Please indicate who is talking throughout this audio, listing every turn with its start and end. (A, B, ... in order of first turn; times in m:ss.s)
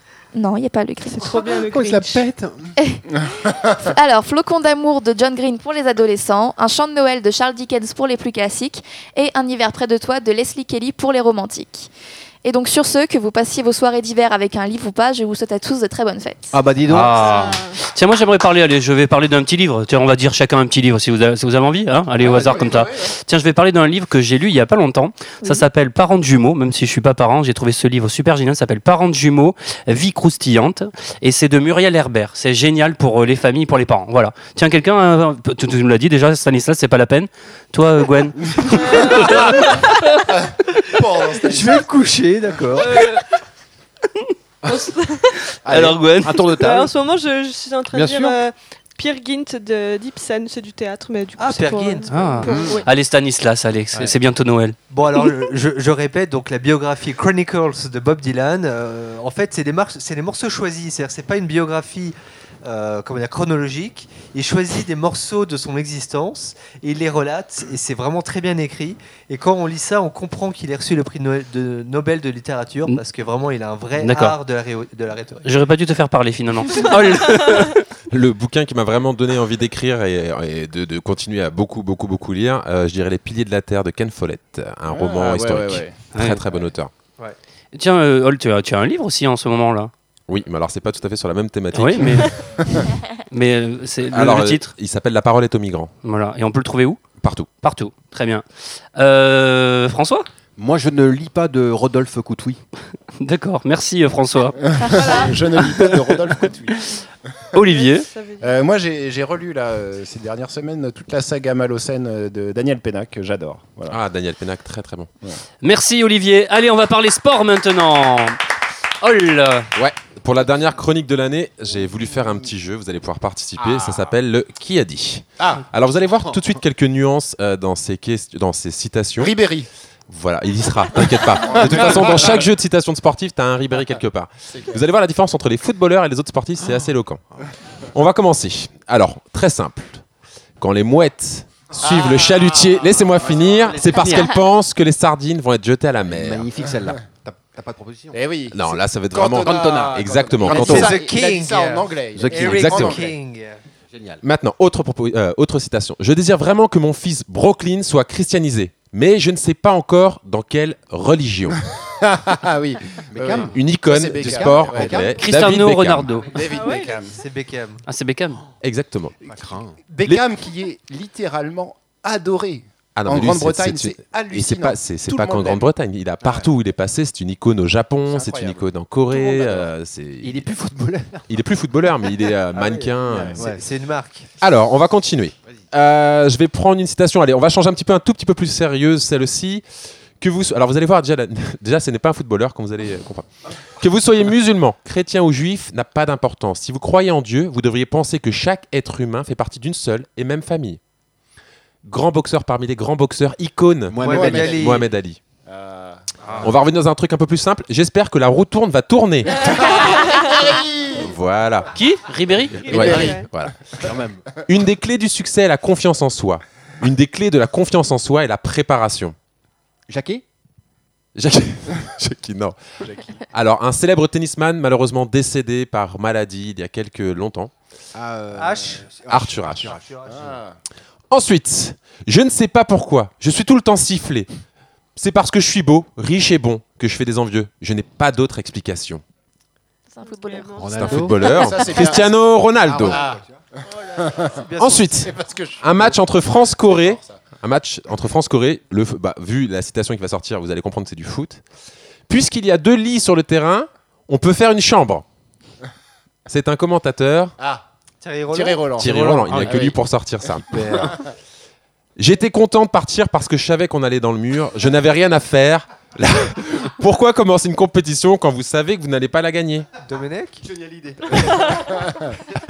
0:00.3-0:01.6 A
0:01.2-0:02.2 B
0:01.3-0:02.7 C
0:02.8-0:03.0 A
0:03.3-0:03.8 D
0:03.6-0:11.9 A
0:12.4-0:16.5 A
0:16.5-0:17.4 C
0:16.9-0:39.7 E
0:17.3-0:17.8 B
0:22.2-0:22.7 C
0:22.4-0:23.0 D
0:39.2-0:39.4 D
0:40.3-0:41.8 D
0:41.4-0:43.0 F
0:42.8-0:43.2 B
0:44.6-0:45.3 B
0:45.6-0:46.4 E
0:45.6-0:46.9 C
0:46.5-0:52.9 B
0:47.9-0:48.4 C
0:51.4-0:52.5 F
0:52.1-0:54.8 E
0:52.4-0:52.8 C
0:54.9-1:15.5 F
1:14.0-1:14.4 E
1:15.4-1:17.8 E
1:18.1-1:26.9 G
1:24.9-1:26.0 D
1:26.1-1:26.4 E
1:27.7-1:29.9 E
1:30.3-1:32.3 G
1:31.7-1:32.3 E
1:33.3-1:34.7 E
1:34.1-1:35.9 G
1:36.0-1:37.1 E
1:37.2-1:37.5 G
1:37.6-1:38.4 E
1:39.0-1:40.3 E
1:40.6-1:42.6 C
1:43.2-1:46.2 E
1:44.8-1:45.4 B
1:44.8-1:46.8 D
1:47.5-1:48.0 E
1:47.6-1:48.5 B
1:48.4-1:54.0 D
1:53.9-1:55.1 G
1:55.6-1:58.4 E
1:59.0-1:59.7 E
1:59.7-2:09.3 G
2:03.6-2:04.0 D
2:09.2-2:09.7 D
2:10.1-2:17.2 G
2:11.2-2:12.4 D
2:14.5-2:14.8 D
2:17.9-2:20.0 G
2:20.6-2:26.5 G
2:21.8-2:23.8 D
2:23.1-2:24.4 C
2:26.0-2:28.2 C
2:28.1-2:33.1 D
2:28.5-2:30.8 G
2:29.2-2:31.0 C
2:30.5-2:33.6 F
2:32.1-2:33.1 C
2:32.6-2:32.9 G
2:33.9-2:34.2 C
2:34.2-2:41.6 G
2:41.8-2:45.2 D
2:43.1-2:45.2 C
2:43.3-2:46.2 G
2:45.2-2:46.4 E
2:46.3-2:47.2 D
2:46.4-2:47.0 B
2:47.0-2:47.8 F
2:47.9-2:48.4 E
2:48.6-2:49.2 G
2:49.2-2:49.8 C
2:49.9-2:55.6 D
2:52.9-3:00.5 G
2:56.2-2:56.5 C
2:58.1-2:58.7 D
2:59.1-2:59.6 C
3:00.2-3:01.3 C
3:01.3-3:03.3 G
3:02.5-3:04.3 F
3:03.0-3:03.6 C
3:04.4-3:09.6 G
3:10.2-3:13.3 G
3:13.8-3:20.8 G
3:21.8-3:25.2 G
3:23.9-3:24.8 C
3:24.0-3:24.8 F
3:24.0-3:24.6 D
3:25.4-3:26.0 D
3:26.4-3:29.8 G
3:29.3-3:31.1 D
3:31.0-3:31.7 G
3:31.7-3:33.2 E
3:32.6-3:33.3 B
3:32.7-3:33.6 G
3:32.7-3:33.2 D
3:33.7-3:34.4 C
3:34.5-3:39.1 G
3:39.9-3:40.2 C
3:41.2-3:42.6 G
3:43.2-3:47.5 G
3:47.9-3:49.9 C
3:48.3-3:48.9 F
3:49.1-3:49.7 G
3:49.7-3:50.3 F
3:50.1-3:50.6 D
3:51.1-3:54.3 G
3:55.0-3:59.0 G
3:59.9-4:01.9 A
4:00.0-4:01.9 B
4:00.6-4:01.3 C
4:00.7-4:03.0 G
4:01.4-4:02.0 D
4:02.6-4:03.4 C
4:02.8-4:03.2 D
4:03.7-4:05.1 F
4:04.0-4:04.4 D
4:04.6-4:11.4 G
4:04.9-4:07.2 D
4:12.1-4:15.0 G
4:16.3-4:17.3 G
4:17.4-4:17.6 D
4:18.0-4:19.0 F
4:18.3-4:19.8 D
4:18.8-4:20.4 G
4:19.2-4:19.7 C
4:20.4-4:20.9 C
4:22.0-4:29.7 G
4:29.8-4:30.4 F
4:30.4-4:32.0 C